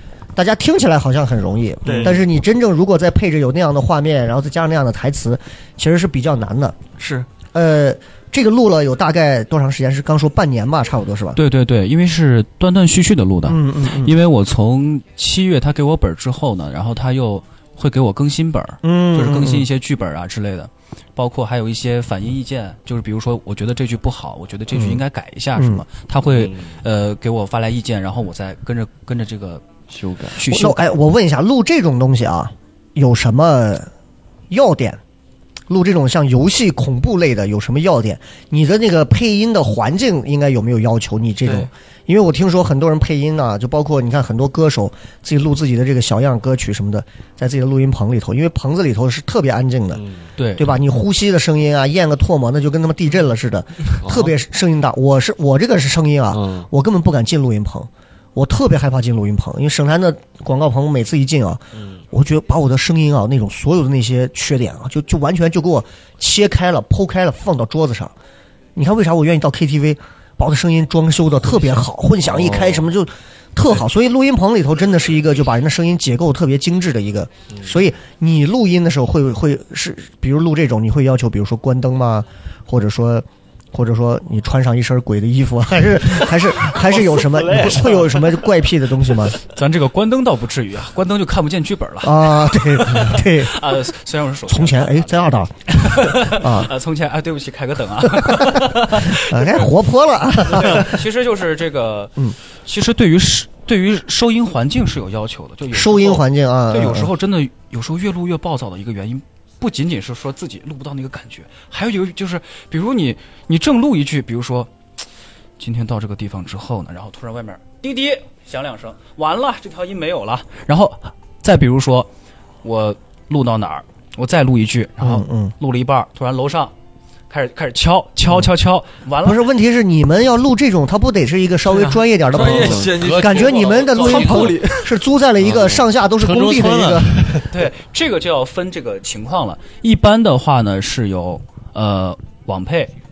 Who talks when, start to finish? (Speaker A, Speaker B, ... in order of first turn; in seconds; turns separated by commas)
Speaker A: 0.3-6.8, Speaker B: 1.8-2.2, Speaker C: 1.9-2.1, Speaker B: 7.0-7.3, Speaker A: 7.5-11.4, Speaker D: 11.3-29.6, Speaker A: 13.4-14.1, Speaker A: 18.8-19.7, Speaker A: 24.7-25.0, Speaker A: 25.6-25.8, Speaker C: 26.2-26.8, Speaker C: 29.9-30.4, Speaker D: 30.4-30.9, Speaker A: 30.4-33.9, Speaker A: 34.5-35.0, Speaker A: 35.7-50.0, Speaker B: 41.4-41.7, Speaker C: 49.9-50.3, Speaker D: 50.4-50.7, Speaker A: 50.5-68.1, Speaker C: 54.0-54.3, Speaker C: 56.3-56.7, Speaker C: 61.7-62.0, Speaker A: 68.7-89.3, Speaker C: 72.2-72.8, Speaker C: 86.8-88.3, Speaker D: 89.5-95.2, Speaker A: 92.0-93.7, Speaker A: 94.5-96.7, Speaker D: 95.7-99.6, Speaker A: 98.1-101.0, Speaker D: 100.5-102.1, Speaker D: 102.6-114.7, Speaker A: 105.7-107.1, Speaker D: 115.6-122.1, Speaker D: 122.6-126.7, Speaker A: 125.0-125.5, Speaker D: 127.3-129.4, Speaker A: 129.2-137.2, Speaker B: 131.7-134.9, Speaker C: 132.3-134.6, Speaker C: 135.4-137.5, Speaker D: 137.5-142.9